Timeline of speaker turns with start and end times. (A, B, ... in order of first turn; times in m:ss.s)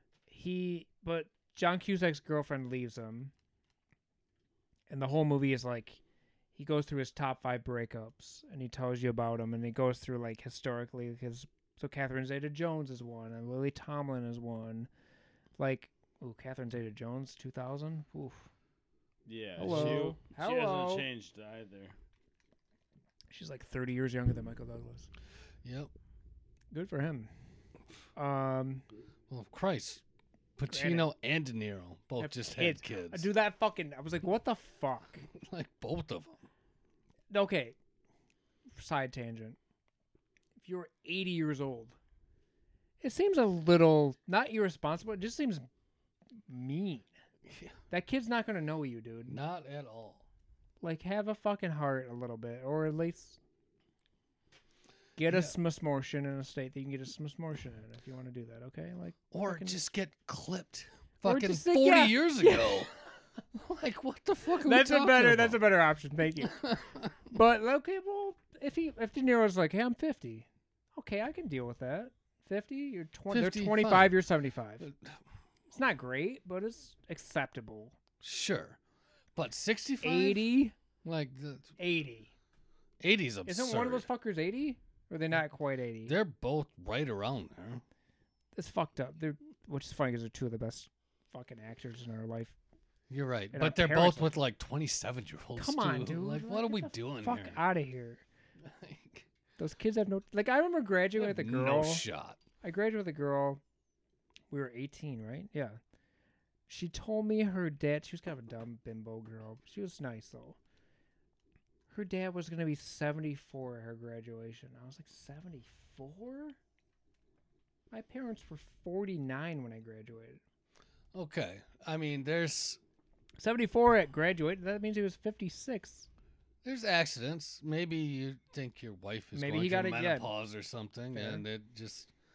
0:00.3-0:03.3 A
0:04.9-0:06.0 A
0:06.6-0:14.9 A
0:15.6-0:18.5 A
0:19.3-0:22.0 B
0:19.6-0:21.1 A
0:19.6-0:20.1 C
0:23.3-0:25.1 A
0:25.6-0:25.9 C
0:26.7-0:27.3 A
0:28.2-0:28.8 A
0:29.3-0:30.0 C
0:30.6-0:33.3 C
0:30.7-0:31.1 A
0:32.2-0:35.3 A
0:35.4-0:36.4 C
0:37.3-0:37.8 A
0:38.7-0:39.6 A
0:40.6-0:42.0 A
0:43.0-0:45.7 A
0:46.5-0:47.1 A
0:47.5-0:47.8 C
0:47.9-0:49.4 A
0:49.2-0:50.3 C
0:50.8-0:53.4 A
0:55.2-0:59.8 A
0:55.3-0:55.6 C
0:59.3-1:02.9 C
1:01.2-1:02.9 A
1:03.5-1:05.6 C
1:04.5-1:06.6 A
1:06.6-1:07.1 C
1:07.3-1:14.9 A
1:13.3-1:14.2 C
1:14.8-1:15.2 C
1:15.7-1:18.0 A
1:18.2-1:18.8 C
1:19.4-1:20.5 C
1:20.0-1:20.8 A
1:21.0-1:21.7 C
1:21.8-1:22.3 A
1:23.0-1:24.1 C
1:23.5-1:26.2 A
1:26.0-1:27.8 C
1:28.5-1:32.6 A
1:33.1-1:37.6 C
1:33.5-1:34.3 A
1:35.6-1:38.2 A
1:38.6-1:39.3 C
1:39.6-1:42.0 A
1:41.2-1:42.4 C
1:42.6-1:43.6 A
1:44.5-1:45.8 A
1:46.7-1:50.6 A
1:51.9-1:56.6 A
1:57.9-2:00.4 A
2:01.1-2:02.8 C
2:03.4-2:06.1 A
2:06.6-2:12.1 C
2:09.4-2:10.3 A
2:11.1-2:11.4 A